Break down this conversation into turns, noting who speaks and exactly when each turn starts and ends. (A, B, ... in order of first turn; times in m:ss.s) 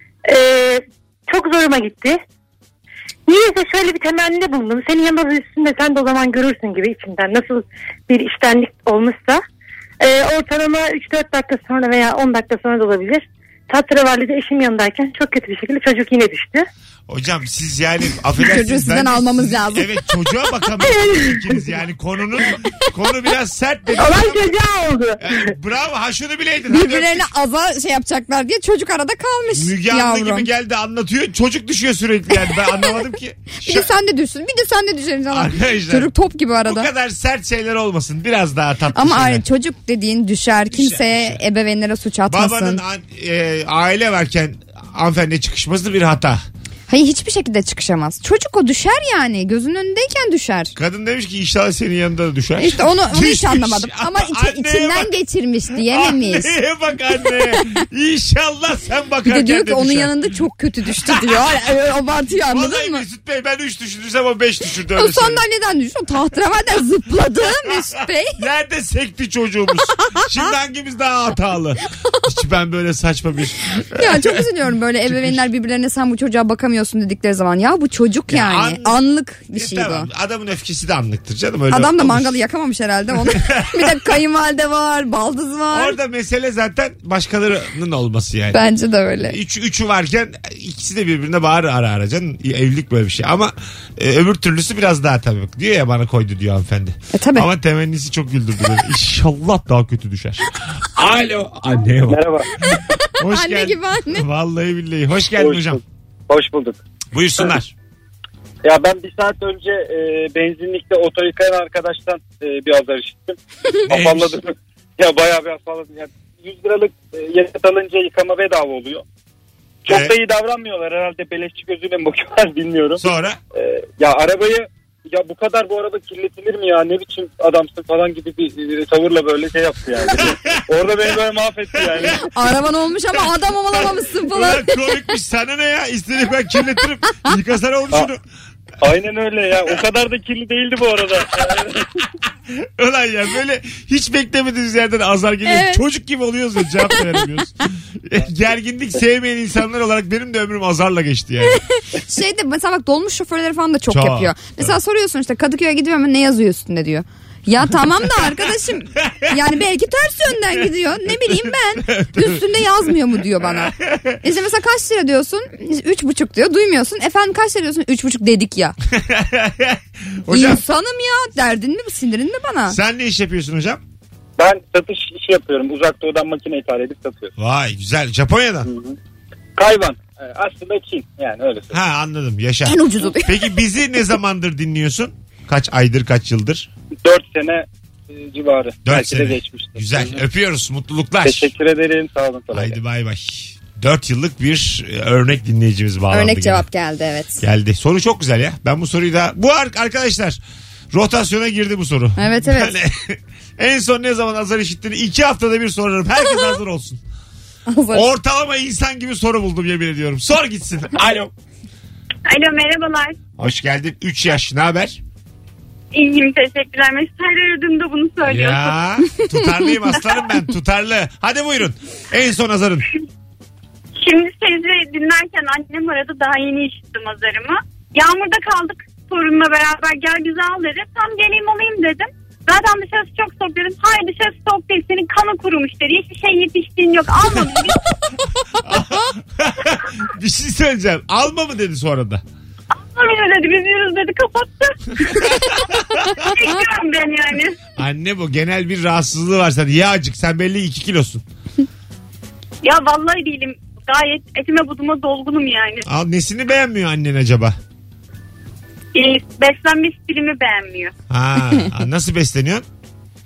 0:00.2-0:02.2 A
0:03.3-0:09.4 A
0:10.0-0:16.7 A
0:17.1-0:24.6 B
0:18.4-0:19.9 C
0:24.0-0:25.2 A
0:25.2-0:27.3 B
0:26.7-0:30.5 C
0:29.5-0:33.9 B
0:33.6-0:36.9 C
0:35.3-0:36.1 B
0:36.6-0:39.4 B
0:38.9-0:42.8 C
0:40.7-0:41.4 B
0:42.3-0:46.4 B
0:46.9-0:50.7 C
0:50.8-0:55.1 B
0:52.6-0:56.5 C
0:55.7-1:00.2 B
0:59.3-1:03.0 C
1:01.0-1:01.4 B
1:02.5-1:05.4 B
1:05.0-1:08.4 C
1:08.4-1:14.4 B
1:13.9-1:20.1 C
1:15.0-1:15.4 B
1:18.3-1:19.0 B
1:19.5-1:22.3 B
1:21.7-1:26.0 C
1:23.2-1:24.0 B
1:25.7-1:28.6 B
1:28.5-1:29.4 C
1:29.2-1:42.2 B
1:37.1-1:37.5 C
1:42.1-1:42.5 D
1:42.6-1:44.2 C
1:43.2-1:45.8 B
1:45.3-1:46.8 D
1:47.1-1:47.7 B
1:48.6-1:59.0 D
1:53.9-1:54.4 B
1:59.8-2:03.0 D
1:59.9-2:00.2 B
2:03.0-2:03.4 B
2:03.5-2:12.2 D
2:10.2-2:10.6 B
2:11.7-2:12.2 B
2:12.2-2:15.0 C
2:13.8-2:18.2 B
2:18.8-2:21.8 D
2:22.5-2:31.6 B
2:25.5-2:25.8 C
2:26.9-2:27.2 C
2:31.5-2:48.8 C
2:33.9-2:34.8 B
2:41.0-2:42.4 B
2:43.4-2:44.2 B
2:48.9-2:50.6 B
2:50.3-2:52.8 C
2:52.7-2:53.8 B
2:54.4-2:57.3 D
2:57.4-2:58.7 B
2:58.6-2:59.0 D
2:59.6-3:01.8 D
3:01.7-3:06.7 B
3:02.6-3:03.4 C
3:07.0-3:10.2 D
3:08.8-3:11.5 B
3:11.2-3:12.8 D
3:12.5-3:16.6 B
3:16.1-3:17.4 C
3:17.4-3:27.0 B
3:22.2-3:22.7 C
3:27.7-3:28.1 C
3:27.9-3:31.3 B
3:32.3-3:33.2 E
3:33.4-3:35.0 B
3:35.9-3:38.8 E
3:38.2-3:42.8 B
3:44.0-3:57.8 E
3:58.6-4:02.2 B
4:02.8-4:07.6 E
4:05.0-4:06.3 B
4:07.8-4:11.2 B
4:12.6-4:15.8 E
4:15.8-4:17.6 B
4:18.9-4:20.9 E
4:21.1-4:22.6 B